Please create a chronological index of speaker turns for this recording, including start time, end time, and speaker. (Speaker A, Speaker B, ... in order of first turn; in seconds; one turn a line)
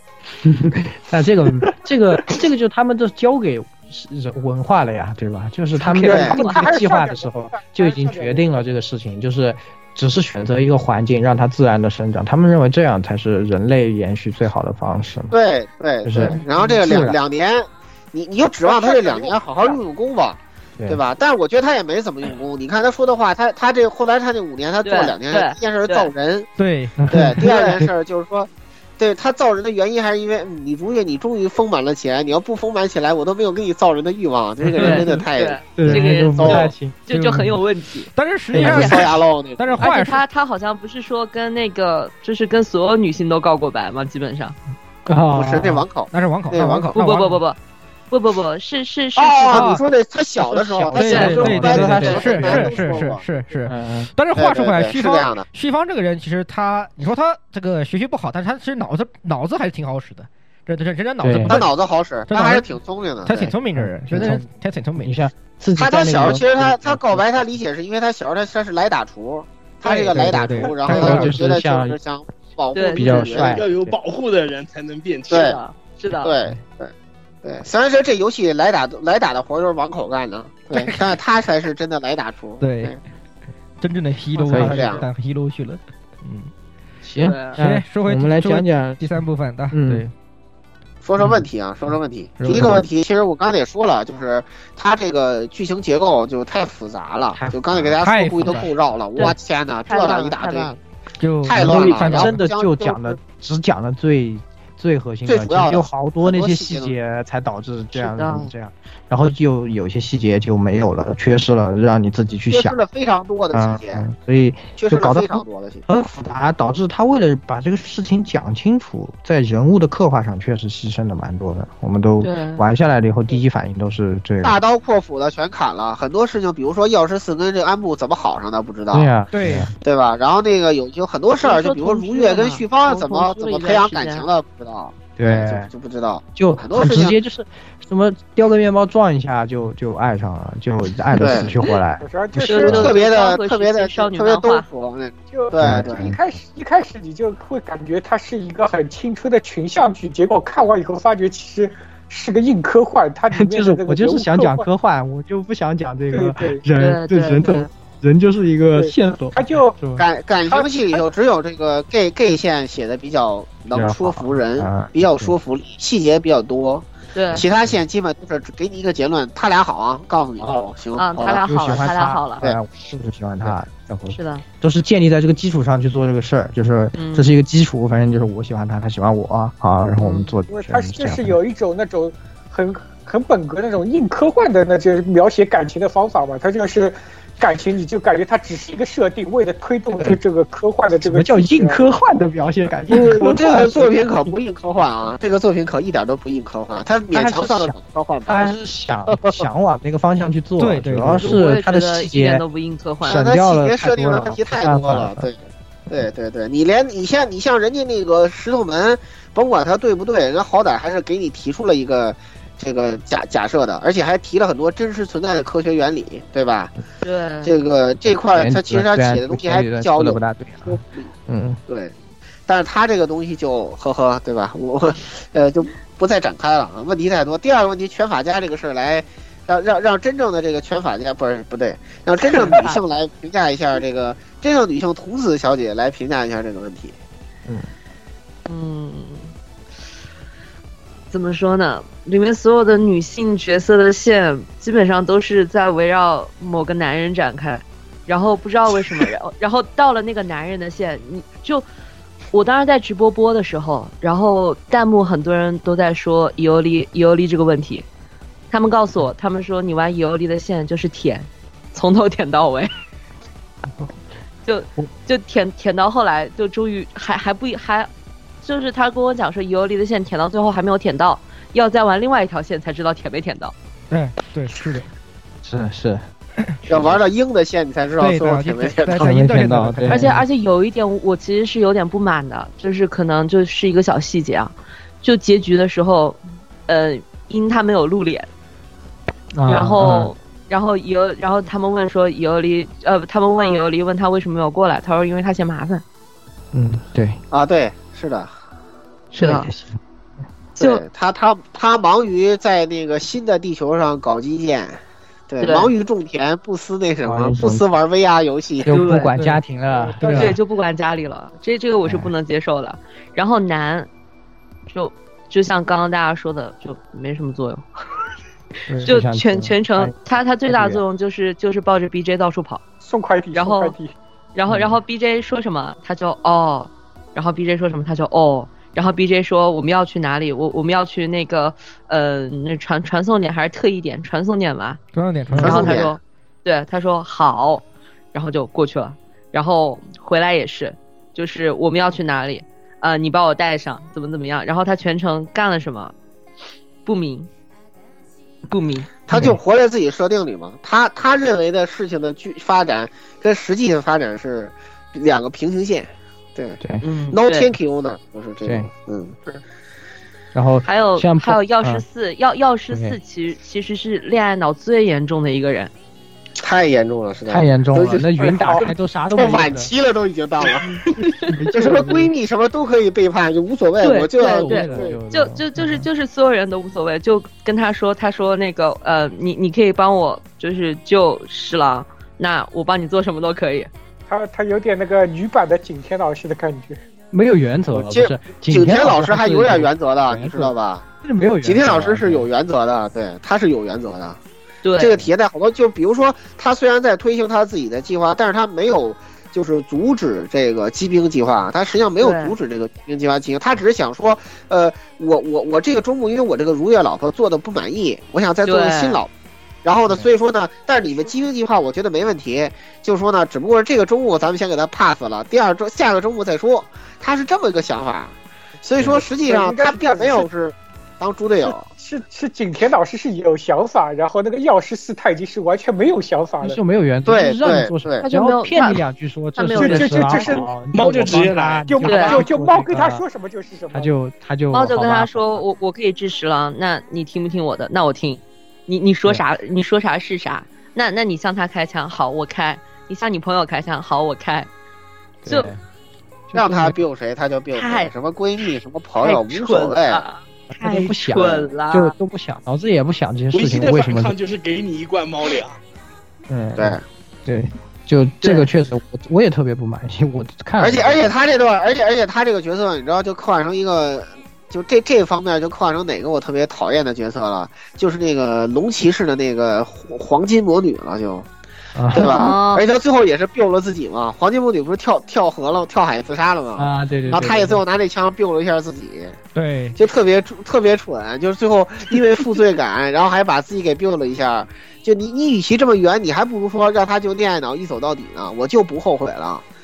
Speaker A: 0.4-15.3
Speaker B: 5.8-8.5
Speaker C: 6.0-6.4
Speaker D: 6.0-6.7
Speaker C: 15.3-26.5
Speaker A: 16.0-17.2
Speaker D: 24.8-26.1
Speaker E: 26.6-26.9
Speaker A: 27.0-27.9
Speaker C: 27.1-36.7
Speaker E: 34.8-35.0
Speaker A: 34.8-35.0
Speaker D: 34.8-38.9
Speaker A: 35.8-37.5
Speaker E: 37.2-37.5
Speaker E: 38.1-40.2
Speaker A: 38.5-38.9
Speaker C: 38.6-39.8
Speaker D: 39.8-44.5
Speaker A: 45.1-45.8
Speaker C: 45.3-47.0
Speaker E: 46.1-47.4
Speaker D: 46.9-47.6
Speaker D: 48.1-49.7
Speaker C: 49.1-53.2
Speaker E: 49.5-49.8
Speaker A: 50.5-52.7
Speaker E: 50.9-61.7
Speaker D: 51.0-52.4
Speaker A: 53.6-54.1
Speaker C: 54.4-55.4
Speaker A: 61.2-61.6
Speaker C: 61.5-63.5
Speaker E: 62.3-62.6
Speaker E: 63.2-65.2
Speaker A: 63.8-64.5
Speaker A: 65.0-67.3
Speaker C: 65.8-73.6
Speaker A: 69.8-72.0
Speaker E: 70.1-71.5
Speaker D: 72.7-73.4
Speaker A: 72.9-74.0
Speaker F: 73.5-75.5
Speaker C: 75.3-75.6
Speaker D: 75.3-76.3
Speaker C: 76.2-76.9
Speaker C: 77.4-83.0
Speaker E: 82.6-83.0
Speaker E: 83.8-86.5
Speaker A: 84.4-84.9
Speaker C: 84.5-85.0
Speaker A: 87.0-89.0
Speaker D: 87.2-87.6
Speaker E: 87.6-90.1
Speaker A: 89.7-90.1
Speaker C: 91.0-100.8
Speaker E: 92.4-92.8
Speaker A: 92.5-92.8
Speaker A: 97.3-98.6
Speaker E: 98.0-98.7
Speaker D: 99.2-100.7
Speaker E: 101.2-102.4
Speaker C: 101.4-103.2
Speaker A: 101.5-112.8
Speaker C: 105.2-106.9
Speaker D: 107.9-108.5
Speaker C: 112.5-114.0
Speaker A: 113.5-124.6
Speaker C: 114.8-115.8
Speaker D: 122.2-122.6
Speaker C: 124.4-129.1
Speaker A: 128.9-129.7
Speaker E: 129.3-129.7
Speaker C: 129.8-137.2
Speaker D: 131.4-134.2
Speaker A: 135.2-135.7
Speaker A: 136.3-142.9
Speaker C: 141.1-141.6
Speaker B: 142.0-143.0
Speaker D: 142.4-144.7
Speaker C: 142.5-146.1
Speaker B: 145.3-154.7
Speaker A: 145.6-146.2
Speaker A: 153.3-160.0
Speaker B: 156.1-156.6
Speaker D: 156.8-157.7
Speaker B: 158.7-159.8
Speaker C: 160.0-172.6
Speaker B: 160.5-161.0
Speaker A: 163.7-165.3
Speaker D: 167.1-167.4
Speaker A: 167.4-167.8
Speaker D: 170.9-172.4
Speaker A: 171.2-181.4
Speaker D: 174.1-174.4
Speaker D: 176.9-177.3
Speaker D: 179.9-180.3
Speaker B: 180.5-191.8
Speaker A: 191.0-194.0
Speaker C: 192.9-198.5
Speaker A: 197.1-202.4
Speaker C: 199.1-199.4
Speaker E: 200.6-201.4
Speaker D: 201.2-203.3
Speaker A: 203.0-205.3
Speaker C: 203.0-216.7
Speaker D: 217.0-217.5
Speaker C: 217.4-221.1
Speaker A: 218.3-221.6
Speaker C: 221.7-221.9
Speaker C: 222.5-236.9
Speaker D: 232.3-232.8
Speaker D: 238.5-239.3
Speaker D: 241.1-251.7
Speaker D: 252.3-257.8
Speaker D: 258.5-262.7
Speaker D: 264.4-267.9
Speaker D: 268.4-273.5
Speaker E: 273.9-274.9
Speaker A: 275.4-276.0
Speaker C: 276.7-279.1
Speaker E: 278.0-280.2
Speaker A: 279.0-280.2
Speaker D: 279.9-288.3
Speaker A: 289.3-290.1
Speaker D: 289.5-295.8
Speaker A: 296.5-297.2
Speaker C: 297.3-298.3
Speaker A: 299.1-299.8
Speaker D: 299.1-299.5
Speaker D: 300.6-300.8
Speaker C: 300.6-308.8
Speaker D: 305.4-305.7
Speaker A: 307.0-307.6
Speaker A: 308.6-310.4
Speaker D: 308.7-309.1
Speaker B: 309.7-310.3
Speaker E: 310.0-310.4
Speaker D: 310.1-313.9
Speaker A: 311.8-312.1
Speaker D: 314.7-317.7
Speaker A: 318.8-319.9
Speaker D: 318.8-322.6
Speaker A: 320.5-320.8
Speaker B: 322.8-323.9
Speaker D: 323.3-323.8
Speaker D: 324.3-334.8
Speaker A: 324.5-324.8
Speaker E: 334.9-335.8
Speaker A: 335.3-335.6
Speaker D: 335.4-345.9
Speaker C: 335.4-335.9
Speaker D: 346.8-347.3
Speaker D: 348.5-349.0
Speaker C: 349.1-356.6
Speaker A: 349.1-349.4
Speaker D: 356.8-357.5
Speaker C: 357.1-359.2
Speaker A: 358.4-358.7
Speaker A: 360.3-361.8
Speaker D: 360.6-365.7
Speaker A: 362.7-363.0
Speaker C: 366.4-368.1
Speaker A: 367.3-369.7
Speaker B: 368.2-368.7
Speaker C: 369.1-370.6
Speaker A: 370.7-372.1
Speaker D: 371.0-371.4
Speaker C: 371.5-374.9
Speaker D: 373.8-383.7
Speaker A: 374.4-375.9
Speaker B: 384.1-386.8
Speaker A: 387.1-392.3
Speaker C: 387.7-390.8
Speaker C: 391.4-394.2
Speaker D: 394.6-395.1
Speaker C: 394.8-409.1
Speaker D: 402.0-402.3
Speaker D: 408.4-409.0
Speaker C: 409.6-421.7
Speaker B: 419.2-420.2
Speaker B: 421.5-426.6
Speaker A: 426.4-433.0
Speaker C: 427.1-428.0
Speaker D: 428.0-428.8
Speaker D: 429.4-430.4
Speaker B: 429.5-430.5
Speaker F: 430.7-431.8
Speaker B: 431.7-433.9
Speaker D: 431.8-432.2
Speaker A: 433.7-435.4
Speaker D: 434.5-444.5
Speaker A: 445.2-445.6
Speaker A: 446.3-446.8
Speaker C: 446.3-450.0
Speaker D: 447.5-447.9
Speaker D: 449.0-451.9
Speaker A: 450.5-454.1
Speaker F: 453.3-455.6
Speaker A: 456.3-461.1
Speaker C: 456.6-456.8
Speaker D: 458.2-458.5
Speaker C: 460.6-471.3
Speaker A: 471.7-472.2
Speaker C: 471.9-479.1
Speaker D: 471.9-472.6
Speaker A: 476.6-477.6
Speaker E: 479.3-479.8
Speaker C: 479.8-489.4